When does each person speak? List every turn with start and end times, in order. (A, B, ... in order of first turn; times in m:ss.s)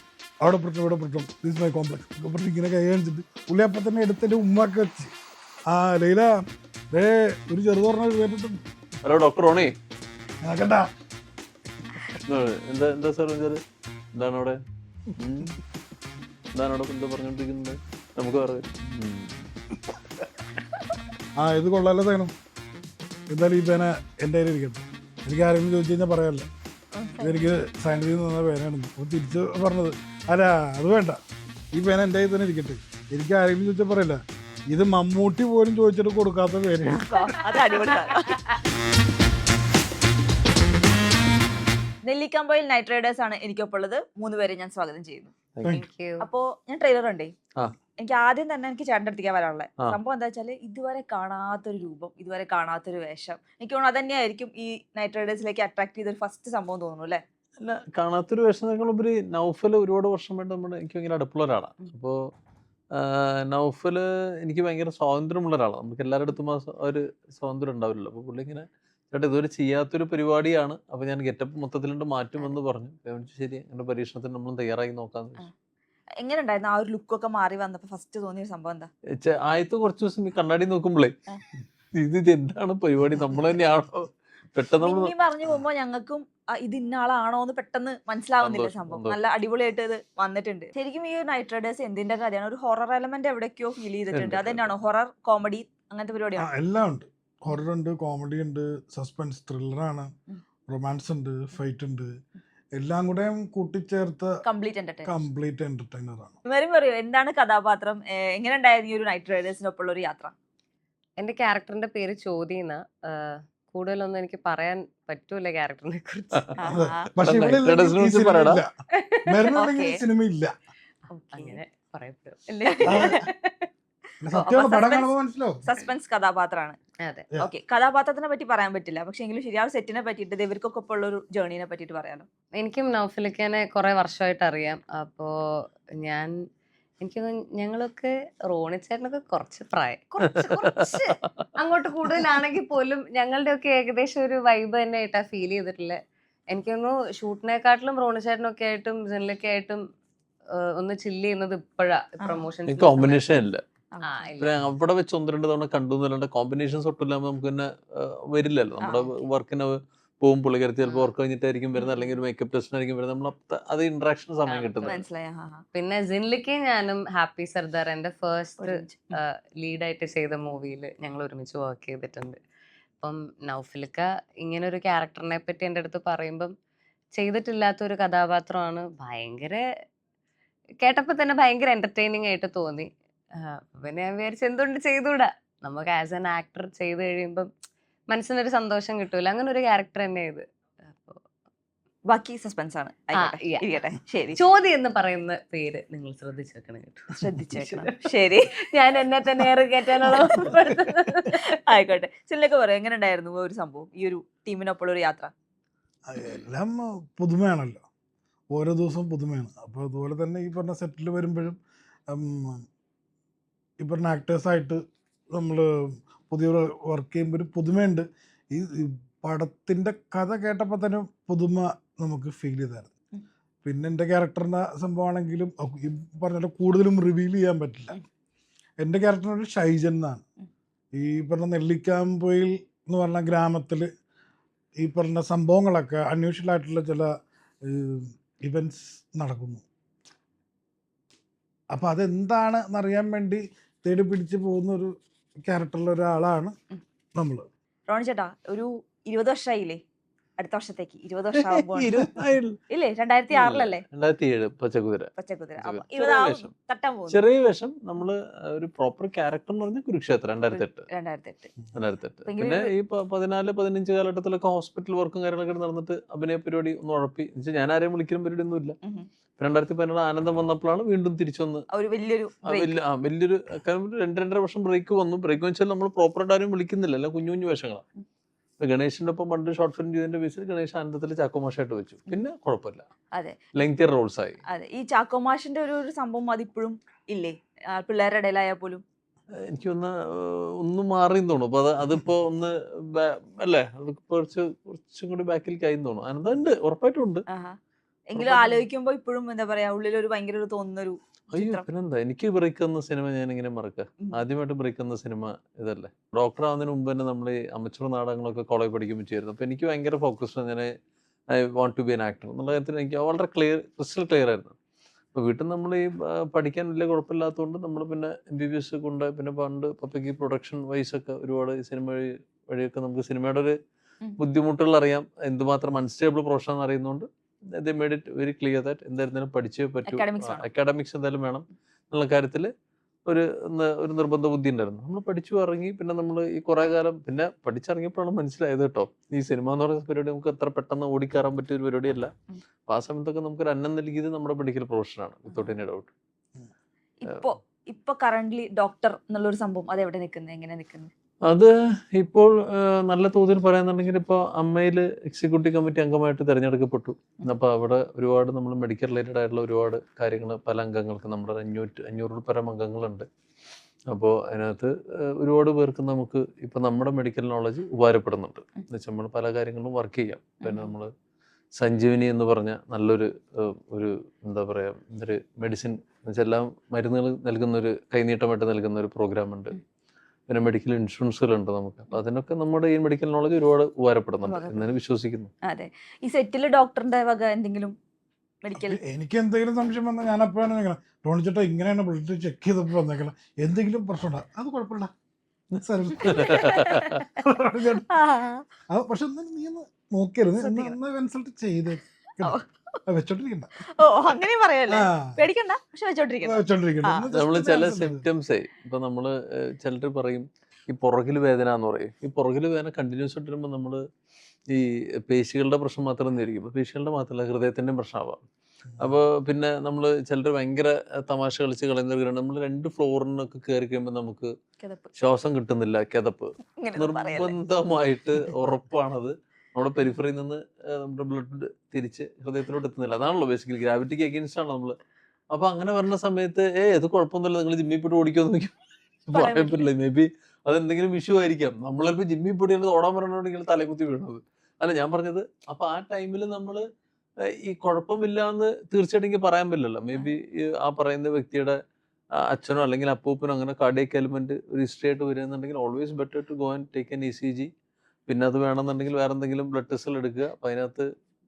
0:00.4-0:05.1 A
0:05.7-0:08.6 A
0:09.0-0:09.8 B
0:10.4-0:10.9 A
0:12.2-0:13.6 B
0:14.1-0:14.6 B
0:15.2-0:15.5 B
0:16.5-0:19.4 B
0:21.4-0:22.3 A
0:23.3-0:26.5 A
0:26.9-0:27.5 C
0:27.2-0:31.2 A
0:31.7-0:37.3 A
0:37.1-0:38.4 C
0:37.7-0:38.0 D
0:42.0-0:45.3 C
0:45.7-0:46.3 D
0:46.2-0:47.3 C
0:48.0-0:57.2 C
0:57.6-1:02.2 B
1:02.9-1:15.5 B
1:16.2-1:18.9 C
1:19.2-1:21.1 B
1:21.9-1:25.1 B
1:24.8-1:36.5 C
1:28.4-1:29.2 B
1:34.1-1:34.7 B
1:36.4-1:40.1 A
1:40.7-1:42.1 A
1:42.8-1:44.4 A
1:44.4-1:45.2 C
1:45.0-1:46.4 A
1:46.4-1:50.3 C
1:51.2-1:56.5 D
1:56.6-1:57.1 C
1:56.7-1:58.7 A
1:57.2-1:58.6 B
1:59.0-1:59.2 D
1:59.2-2:00.5 A
1:59.5-2:00.0 C
2:01.2-2:01.6 C
2:01.2-2:03.7 D
2:02.6-2:03.1 C
2:02.8-2:03.2 A
2:04.2-2:05.7 A
2:04.3-2:05.1 C
2:05.6-2:06.8 C
2:07.4-2:12.2 C
2:12.6-2:15.3 D
2:16.0-2:16.3 D
2:17.0-2:20.2 D
2:20.1-2:21.1 C
2:20.2-2:21.2 B
2:20.8-2:26.0 D
2:26.5-2:29.8 D
2:30.7-2:33.5 D
2:32.7-2:33.6 B
2:33.9-2:34.3 C
2:34.0-2:34.6 D
2:34.4-2:44.9 B
2:38.8-2:39.1 C
2:41.8-2:42.1 C
2:44.5-2:45.0 D
2:44.8-2:45.6 C
2:45.7-2:52.4 D
2:48.6-2:49.1 C
2:53.0-2:56.5 D
2:57.2-2:59.6 D
3:00.8-3:07.5 D
3:08.1-3:11.2 D
3:12.1-3:14.4 C
3:13.2-3:13.6 D
3:14.3-3:17.9 D
3:17.2-3:18.5 C
3:18.7-3:21.4 D
3:20.0-3:20.7 C
3:21.2-3:25.3 C
3:26.1-3:27.8 A
3:28.5-3:31.6 A
3:32.1-3:32.6 A
3:33.8-3:34.8 A
3:35.3-3:42.9 A
3:43.6-3:48.0 A
3:48.8-3:50.2 A
3:50.9-3:53.9 A
3:54.8-3:57.1 A
3:57.6-3:59.6 A
4:01.7-4:04.9 A
4:05.4-4:06.5 A
4:07.2-4:07.4 A
4:07.9-4:09.8 C
4:10.4-4:12.0 C
4:11.3-4:12.6 B
4:12.7-4:13.8 C
4:13.3-4:16.5 B
4:15.2-4:17.2 C
4:17.1-4:20.9 B
4:20.5-4:21.5 C
4:21.7-4:28.8 B
4:22.2-4:22.7 C
4:29.4-4:31.6 B
4:31.7-4:32.7 C
4:32.4-4:37.8 B
4:38.6-4:42.9 B
4:43.5-4:44.4 B
4:44.5-4:48.8 C
4:49.4-4:57.2 B
4:57.3-4:57.6 C
4:58.1-5:01.6 C
4:58.2-4:58.6 B
5:01.3-5:10.7 B
5:11.3-5:14.5 B
5:15.1-5:23.5 B
5:24.2-5:32.5 B
5:29.8-5:30.4 C
5:33.1-5:42.1 B
5:42.7-5:45.9 B
5:45.3-5:45.6 C
5:47.0-5:50.9 C
5:51.3-6:03.0 B
6:03.9-6:10.9 B
6:10.4-6:10.7 C
6:11.6-6:19.5 B
6:20.3-6:25.3 B
6:24.2-6:24.7 C
6:25.5-6:27.7 C
6:28.4-6:28.8 C
6:28.5-6:34.9 A
6:35.5-6:37.8 A
6:36.0-6:37.0 B
6:36.0-6:37.0 C
6:37.9-6:38.4 C
6:38.7-6:43.5 A
6:40.4-6:40.8 C
6:43.7-6:47.1 C
6:44.7-6:45.2 A
6:46.2-6:48.0 A
6:47.1-6:53.8 B
6:54.5-6:58.2 B
6:58.7-6:59.0 A
6:58.8-7:04.3 B
7:04.6-7:04.9 C
7:04.9-7:14.8 B
7:06.6-7:07.4 C
7:15.3-7:18.5 B
7:19.1-7:26.6 B
7:19.1-7:19.6 C
7:27.3-7:31.6 B
7:32.2-7:37.5 B
7:38.1-7:40.8 B